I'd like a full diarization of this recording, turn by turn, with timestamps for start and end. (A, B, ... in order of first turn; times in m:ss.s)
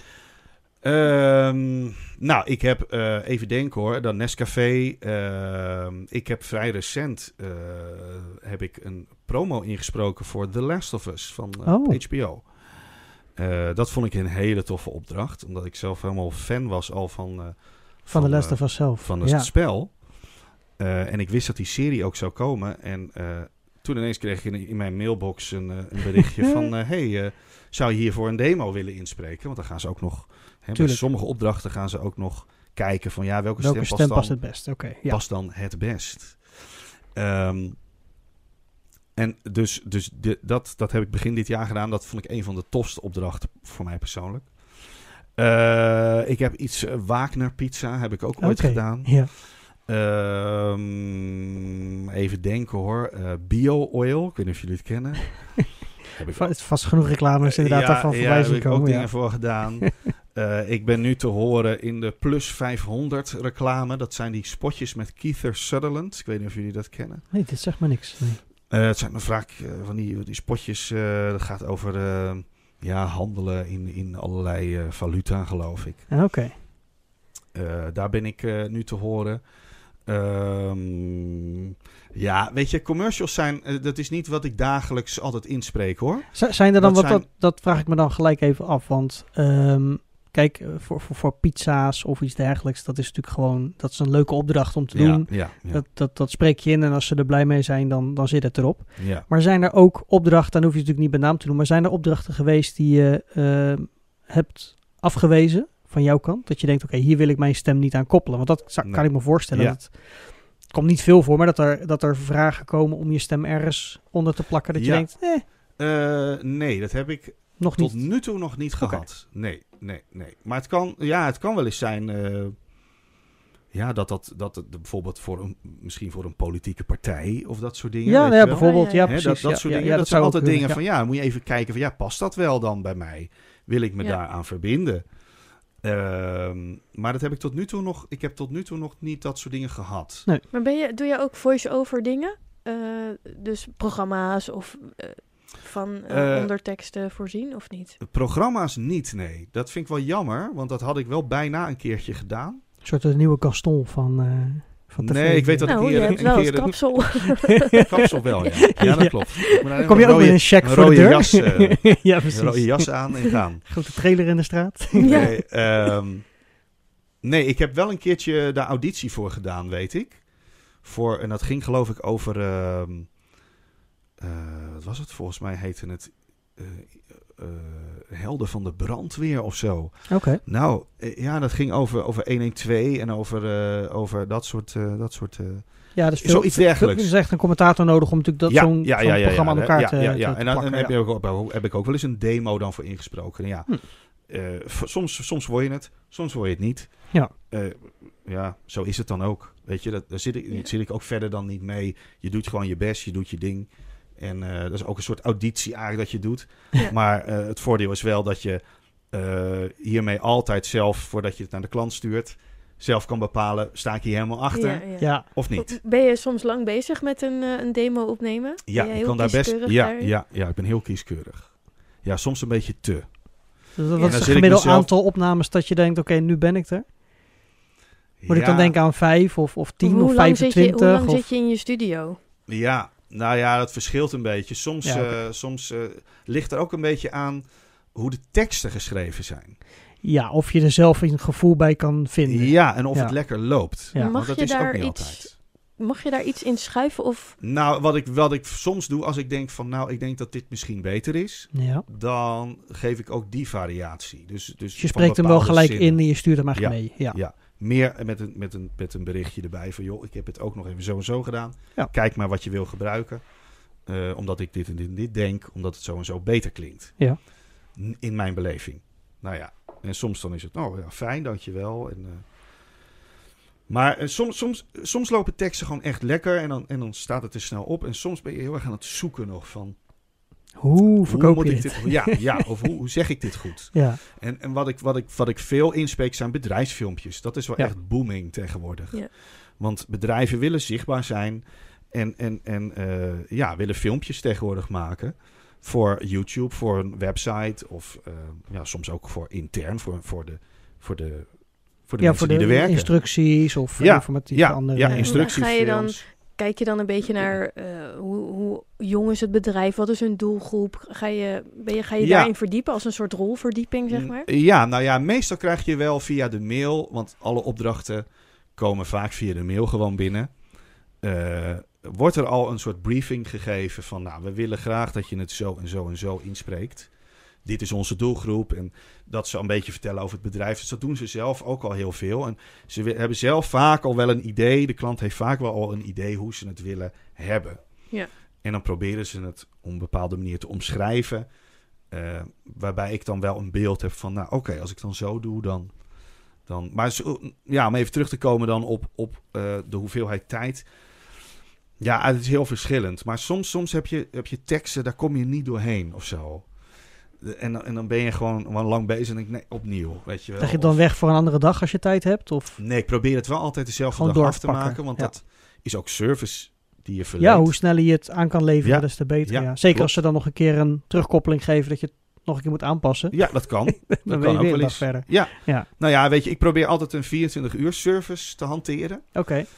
0:00.8-0:12.5 A
0:11.6-0:12.0 B
0:13.4-0:20.0 A
0:18.1-0:19.5 B
0:20.8-0:37.8 A
0:30.7-0:31.0 B
0:33.6-0:35.2 B
0:39.2-0:44.5 A
0:45.3-0:56.6 A
0:48.4-0:49.3 B
0:56.3-0:59.9 B
0:57.4-1:07.2 A
1:07.3-1:08.4 B
1:08.7-1:16.0 A
1:16.1-1:16.5 B
1:17.5-1:19.4 A
1:20.0-1:27.2 A
1:26.3-1:55.4 B
1:34.9-1:35.8 A
1:39.0-1:39.2 A
1:48.8-1:49.8 A
1:54.7-1:55.2 A
1:55.8-2:02.6 A
1:57.6-1:58.2 B
1:58.8-1:59.0 B
2:03.7-2:15.0 A
2:08.0-2:10.8 B
2:08.5-2:09.1 C
2:15.8-2:20.3 A
2:20.5-2:28.0 C
2:26.1-2:26.5 A
2:28.0-2:32.6 A
2:32.8-2:36.7 B
2:35.0-2:37.1 A
2:35.6-2:37.8 C
2:37.6-2:43.7 A
2:38.7-2:45.4 B
2:45.0-2:45.3 C
2:45.0-2:46.4 A
2:47.2-2:50.2 A
2:50.8-2:53.1 A
2:54.2-3:07.1 A
3:00.1-3:00.4 B
3:05.9-3:10.9 B
3:08.5-3:28.6 A
3:29.1-3:35.8 A
3:34.5-3:40.1 C
3:35.0-3:35.2 B
3:38.7-3:43.2 A
3:43.8-3:46.9 B
3:44.0-3:44.2 C
3:44.0-3:44.9 A
3:48.2-3:48.8 A
3:48.3-3:51.2 B
3:49.8-3:52.2 C
3:52.5-3:59.6 A
3:54.8-3:55.2 B
4:00.0-4:03.1 B
4:02.2-4:05.3 A
4:04.0-4:07.4 C
4:07.4-4:23.2 A
4:11.5-4:11.8 B
4:14.8-4:17.2 B
4:23.8-4:27.0 A
4:27.7-4:32.2 A
4:33.7-4:39.8 A
4:40.6-4:42.2 B
4:41.0-5:01.3 A
4:43.7-4:44.0 B
5:01.8-5:03.0 A
5:02.0-5:05.4 B
5:03.8-5:06.0 A
5:04.9-5:14.3 C
5:12.0-5:12.3 A
5:13.9-5:20.3 A
5:21.0-5:26.9 A
5:27.4-5:37.6 A
5:38.4-5:41.2 A
5:41.9-5:45.7 A
5:46.4-5:50.7 A
5:51.8-5:56.5 A
5:57.2-6:00.8 A
6:00.4-6:02.6 B
6:02.6-6:07.6 A
6:03.9-6:05.1 B
6:07.2-6:15.7 B
6:08.6-6:09.9 A
6:13.1-6:19.2 A
6:19.1-6:19.5 B